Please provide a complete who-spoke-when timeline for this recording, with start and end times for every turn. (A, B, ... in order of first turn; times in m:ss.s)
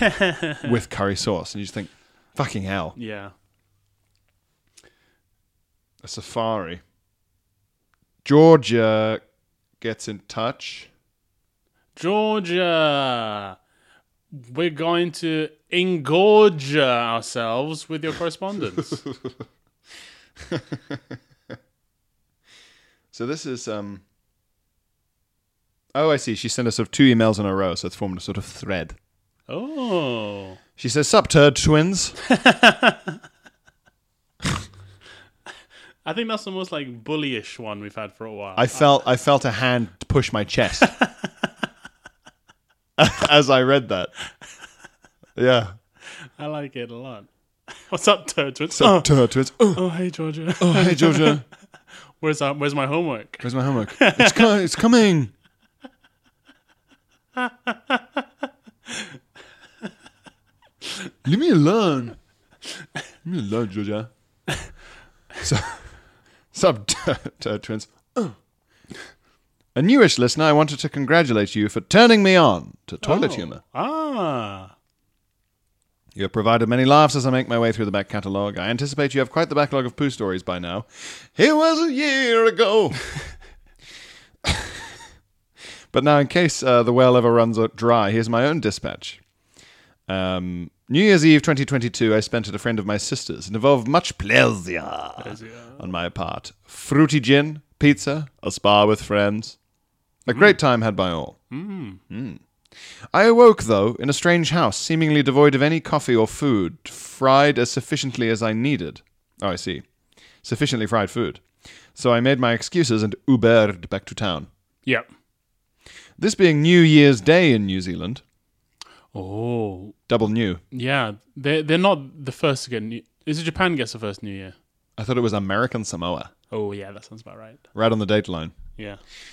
0:00.6-0:03.0 A
0:03.0-0:03.3 B
0:06.0-0:06.8 A
0:08.2-0:09.2 A
0:09.8-0:10.9 A
0:12.0-0:13.6 B
0:14.3-0:19.0 B
0:18.8-0:19.3 A
0:20.5-0:21.2 A
0:23.1-0:24.0 A
0:25.9-0:29.0 A
0:29.5-0:30.6 B
0:30.8-0:32.2 A
0:32.4-0:33.2 B
0:36.0-0:39.0 B
0:38.6-0:40.9 A
0:43.0-0:44.1 A
0:45.4-0:45.8 A
0:46.0-0:51.4 B
0:48.7-0:49.9 A
0:50.6-0:51.4 A
0:52.2-0:54.5 B
0:53.4-0:55.3 A
1:01.2-1:02.2 A
1:03.2-1:04.6 A
1:05.4-1:08.4 A
1:09.8-1:13.6 A
1:13.0-1:14.7 B
1:16.2-1:23.1 A
1:24.4-1:24.8 A
1:25.9-1:29.2 A
1:30.1-1:39.6 A
1:35.2-1:35.9 B
1:40.2-1:41.4 A
1:40.3-1:40.6 B
1:41.5-1:42.0 B
1:42.1-1:42.4 A
1:43.1-1:49.9 A
1:50.4-1:51.4 A
1:52.0-1:54.5 A
1:56.2-1:58.2 A
1:59.1-2:00.0 B
2:00.1-2:00.6 A
2:00.7-2:04.6 B
2:05.0-2:06.3 A
2:06.5-2:07.6 B
2:07.7-2:08.6 A
2:08.8-2:09.0 B